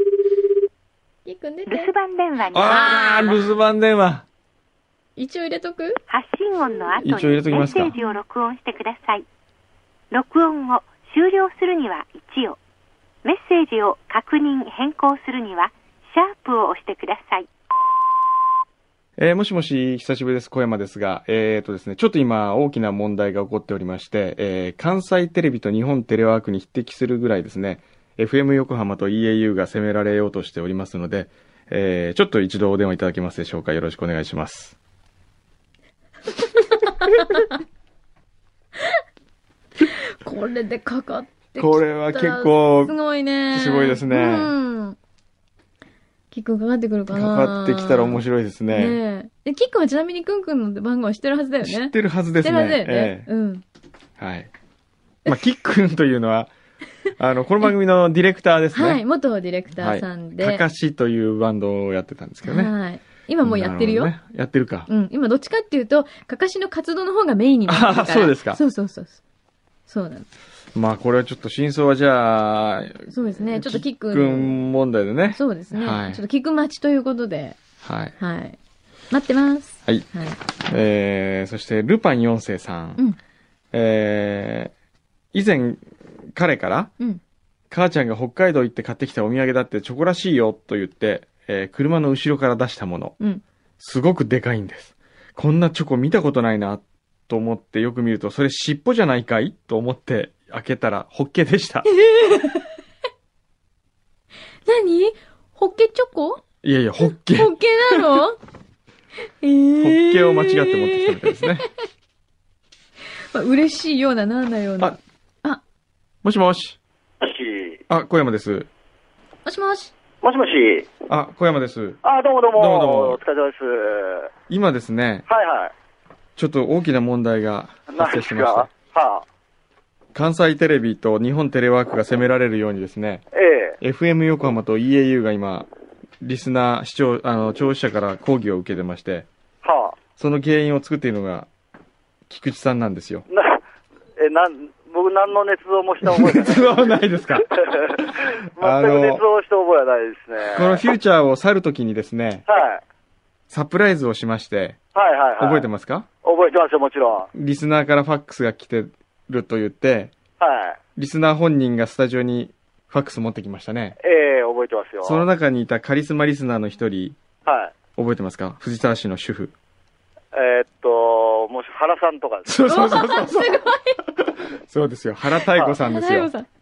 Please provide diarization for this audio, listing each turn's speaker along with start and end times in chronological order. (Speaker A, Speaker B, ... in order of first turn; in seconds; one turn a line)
Speaker A: 1.2-1.9
Speaker B: 1.7-3.4
Speaker C: 2.5-4.2
Speaker A: 2.6-3.4
Speaker A: 5.2-6.0
Speaker B: 6.1-9.2
Speaker C: 7.0-7.9
Speaker B: 10.1-12.6
Speaker B: 13.2-17.5
Speaker C: 19.2-34.8
Speaker A: 37.0-37.4
Speaker A: 39.8-45.0
Speaker C: 41.6-43.0
Speaker C: 43.5-44.5
Speaker A: 46.3-53.6
Speaker C: 47.1-49.0
Speaker C: 51.6-53.3
Speaker C: 54.2-54.5
Speaker C: 55.2-56.5
Speaker C: 57.2-59.0
Speaker A: 58.7-60.6
Speaker C: 59.8-62.7
Speaker A: 62.4-64.1
Speaker C: 63.4-64.9
Speaker A: 64.9-69.2
Speaker C: 67.7-68.6
Speaker A: 69.9-70.3
Speaker C: 70.7-76.2
Speaker A: 73.1-74.6
Speaker A: 75.3-77.6
Speaker C: 77.8-78.1
Speaker A: 78.2-78.6
Speaker A: 79.1-80.4
Speaker C: 80.7-83.0
Speaker C: 83.7-84.7
Speaker C: 85.3-86.9
Speaker C: 87.7-93.1
Speaker C: 93.8-101.9
Speaker A: 101.9-102.7
Speaker A: 104.6-106.4
Speaker C: 106.6-108.0
Speaker A: 107.0-108.4
Speaker A: 109.4-111.6
Speaker C: 109.8-111.6
Speaker A: 113.3-115.6
Speaker C: 116.2-116.8
Speaker D: 117.2-117.8
Speaker C: 117.9-118.7
Speaker A: 119.4-119.9
Speaker D: 120.2-120.9
Speaker C: 121.1-122.0
Speaker D: 122.0-124.3
Speaker C: 122.5-123.2
Speaker C: 124.5-125.2
Speaker D: 125.3-125.7
Speaker C: 126.4-128.7
Speaker D: 127.9-129.2
Speaker C: 130.1-133.2
Speaker D: 133.3-133.8
Speaker C: 133.8-135.7
Speaker C: 136.2-139.3
Speaker D: 139.6-140.0
Speaker C: 140.2-141.5
Speaker C: 142.3-143.2
Speaker D: 143.3-143.6
Speaker D: 144.2-146.8
Speaker C: 146.0-149.2
Speaker D: 147.5-150.8
Speaker C: 150.5-152.4
Speaker D: 152.5-152.8
Speaker C: 153.5-154.8
Speaker D: 154.9-155.7
Speaker C: 155.4-156.1
Speaker D: 156.2-157.3
Speaker C: 157.3-160.1
Speaker D: 160.4-160.8
Speaker C: 161.0-164.0
Speaker D: 164.0-165.2
Speaker C: 165.0-167.2
Speaker D: 167.4-167.7
Speaker C: 167.9-169.5
Speaker D: 170.3-172.6
Speaker C: 172.4-173.6
Speaker A: 172.7-174.0
Speaker C: 174.2-176.3
Speaker D: 175.5-175.8
Speaker A: 175.8-176.5